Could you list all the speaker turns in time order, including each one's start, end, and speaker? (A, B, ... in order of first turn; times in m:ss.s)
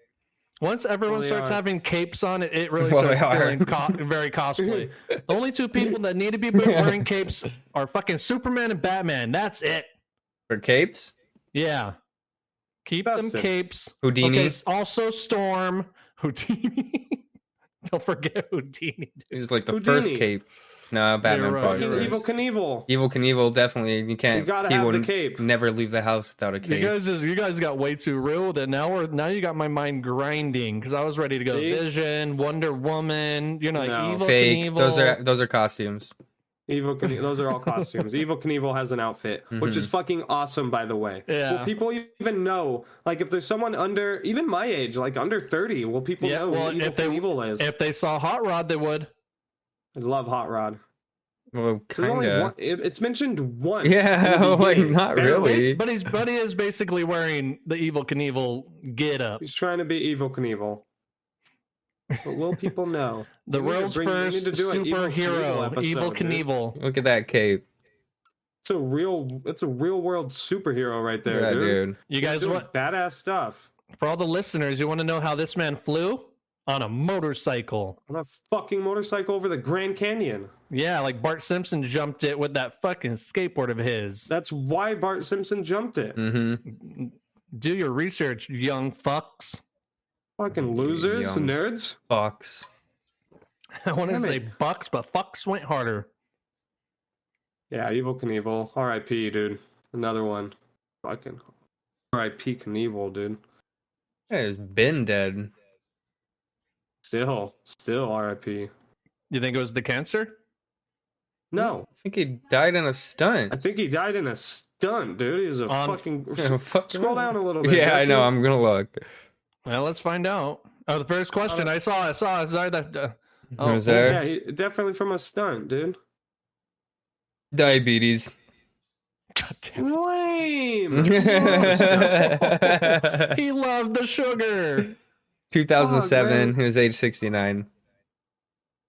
0:00.6-0:09.9 A
0:01.1-0:01.6 B
0:02.8-0:04.0 C
0:04.6-0:04.9 B
0:06.6-0:07.1 C
0:10.5-0:11.1 C
0:11.5-0:12.0 A
0:12.8-0:17.2 A
0:13.1-0:13.5 B
0:14.0-0:14.6 C
0:17.8-0:19.3 A
0:19.3-0:22.2 C
0:19.7-0:20.3 B
0:21.2-0:22.2 A
0:21.6-0:22.9 B
0:22.9-0:27.0 C
0:24.3-0:25.4 B
0:26.6-0:35.2 A
0:31.5-0:31.8 B
0:33.8-0:34.2 B
0:34.2-0:36.1 C
0:36.7-0:47.7 B
0:39.5-0:39.9 C
0:41.3-0:41.7 A
0:46.2-0:49.1 A
0:50.0-0:50.8 B
0:51.5-0:52.5 C
0:52.0-0:55.7 B
0:53.8-0:55.8 C
0:55.2-0:59.4 A
0:59.4-1:00.8 B
1:02.1-1:02.5 A
1:02.2-1:06.4 B
1:03.4-1:06.8 A
1:06.8-1:07.6 C
1:08.6-1:13.7 B
1:11.3-1:12.0 C
1:12.1-1:12.7 A
1:14.0-1:18.0 A
1:18.1-1:20.5 B
1:20.7-1:24.3 A
1:24.3-1:26.2 B
1:26.2-1:26.6 C
1:26.6-1:29.6 A
1:30.4-1:32.0 B
1:30.6-1:32.7 C
1:33.8-1:36.1 A
1:34.1-1:34.4 B
1:37.7-1:41.4 B
1:42.1-1:43.4 B
1:44.3-1:45.5 C
1:47.0-1:48.7 B
1:49.3-1:50.4 A
1:51.5-1:51.9 B
1:51.6-1:53.6 C
1:53.5-1:58.3 B
1:55.7-1:56.1 A
1:56.4-1:59.0 C
1:59.7-2:04.2 A
2:03.6-2:04.2 C
2:03.9-2:06.0 B
2:07.5-2:08.3 C
2:09.4-2:09.9 A
2:09.8-2:12.4 B
2:10.9-2:13.4 C
2:11.2-2:15.0 A
2:15.5-2:17.7 C
2:15.8-2:16.6 B